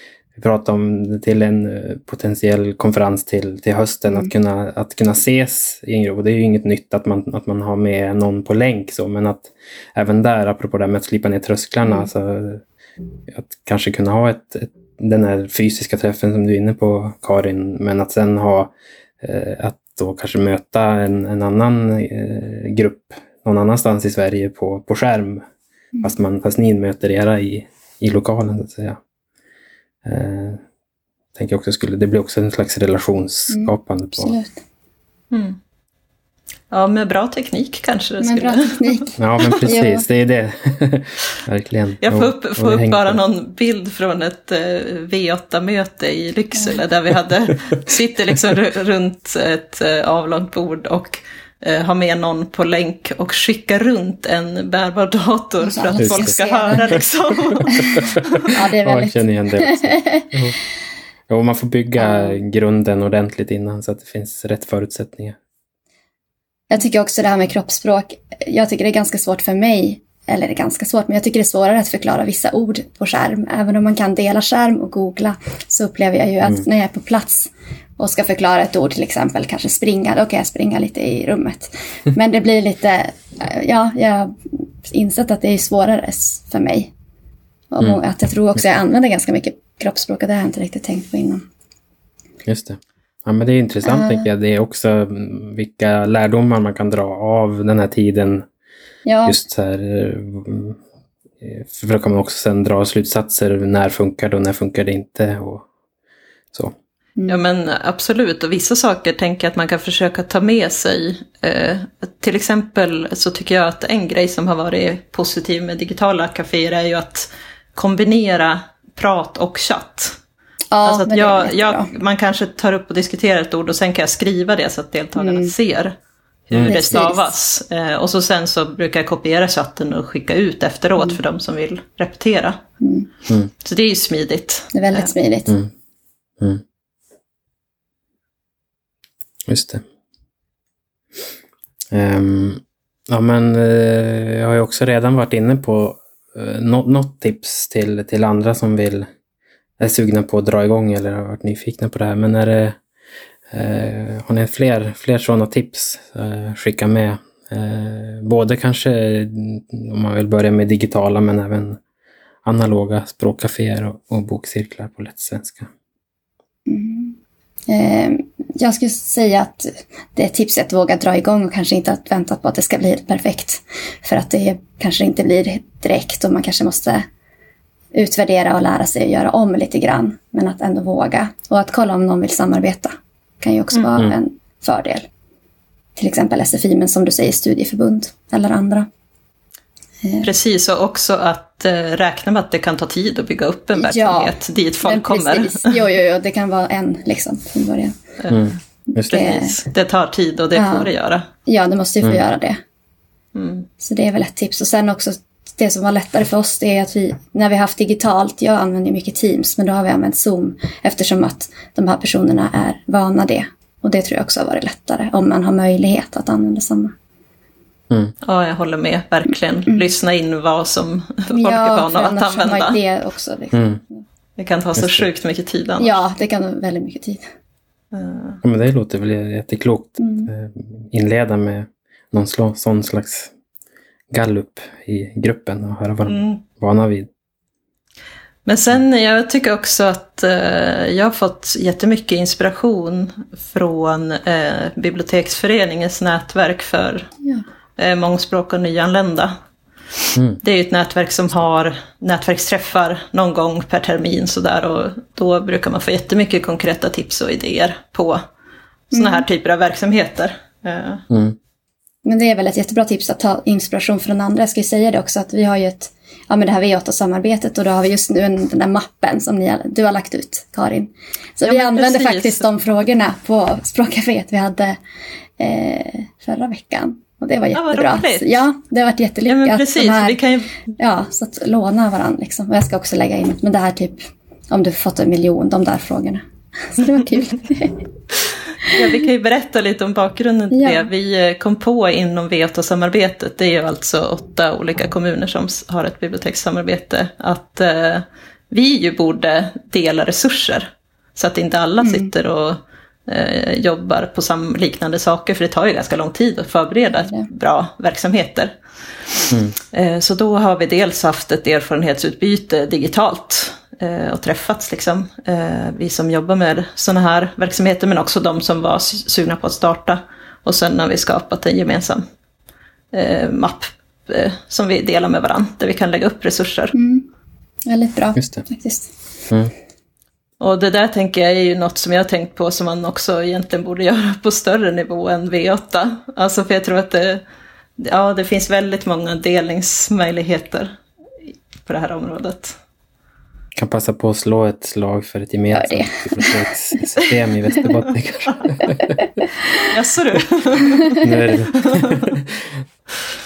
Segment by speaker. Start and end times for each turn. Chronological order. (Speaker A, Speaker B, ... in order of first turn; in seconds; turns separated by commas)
Speaker A: 0.4-12.6, Speaker A: 13.3-25.4, Speaker A: 26.0-29.0, Speaker A: 30.0-30.6, Speaker A: 31.3-34.3, Speaker B: 33.5-34.6, Speaker C: 35.3-35.6, Speaker C: 36.7-39.6, Speaker B: 38.2-40.0, Speaker A: 39.2-43.2, Speaker C: 42.0-58.5, Speaker B: 55.6-57.0, Speaker A: 56.0-56.3, Speaker B: 57.7-60.3, Speaker A: 57.8-60.6, Speaker A: 61.3-65.3, Speaker B: 62.0-62.4, Speaker B: 66.7-86.9, Speaker B: 87.7-91.4, Speaker A: 92.5-98.5, Speaker B: 93.8-94.3, Speaker B: 99.0-99.3, Speaker A: 99.2-100.8, Speaker A: 101.4-105.7, Speaker C: 107.3-120.2, Speaker B: 120.7-121.9, Speaker C: 120.8-125.9, Speaker B: 125.2-125.5, Speaker C: 126.5-132.6, Speaker A: 126.5-126.8, Speaker B: 126.6-127.3, Speaker B: 132.8-133.1, Speaker C: 133.6-135.1, Speaker B: 134.7-135.6, Speaker A: 135.5-135.7, Speaker A: 139.5-139.8, Speaker A: 141.9-149.1, Speaker A: 149.8-152.8, Speaker A: 153.5-161.8, Speaker A: 162.4-165.7, Speaker B: 166.7-167.2, Speaker B: 167.7-177.1, Speaker B: 177.9-185.1, Speaker B: 185.9-188.9, Speaker B: 190.0-190.3, Speaker C: 190.2-195.8, Speaker B: 193.7-197.9, Speaker C: 198.2-198.5, Speaker A: 198.3-199.1, Speaker B: 198.9-199.6, Speaker C: 199.1-201.2, Speaker B: 200.5-200.9, Speaker B: 201.4-202.6, Speaker C: 203.3-203.7, Speaker B: 203.8-216.9, Speaker C: 218.2-222.8, Speaker B: 221.3-224.0, Speaker A: 223.5-223.8, Speaker C: 224.4-226.0, Speaker A: 224.8-225.1, Speaker B: 225.8-227.2, Speaker C: 227.9-228.4, Speaker A: 228.4-233.3, Speaker B: 230.0-230.3, Speaker A: 234.1-237.1, Speaker C: 236.1-236.4, Speaker C: 238.4-247.1, Speaker C: 247.8-249.3, Speaker C: 250.4-258.2, Speaker C: 258.9-261.0, Speaker B: 258.9-259.2, Speaker A: 261.1-261.4, Speaker B: 262.0-274.8, Speaker C: 271.4-272.5, Speaker B: 275.4-280.2, Speaker C: 277.5-278.4, Speaker C: 279.3-280.5, Speaker B: 280.8-287.8, Speaker B: 288.6-288.9, Speaker C: 288.7-308.6, Speaker B: 290.5-290.9, Speaker B: 301.8-302.1, Speaker B: 307.0-307.3, Speaker A: 309.3-309.5, Speaker C: 309.7-322.0, Speaker C: 322.9-326.7, Speaker B: 326.7-327.1, Speaker B: 327.6-328.9, Speaker A: 328.1-328.4, Speaker C: 330.4-337.2, Speaker C: 337.8-340.8, Speaker C: 341.6-342.6, Speaker A: 343.5-348.9, Speaker B: 345.5-346.4, Speaker B: 348.6-349.1, Speaker C: 349.6-352.1, Speaker A: 351.0-352.6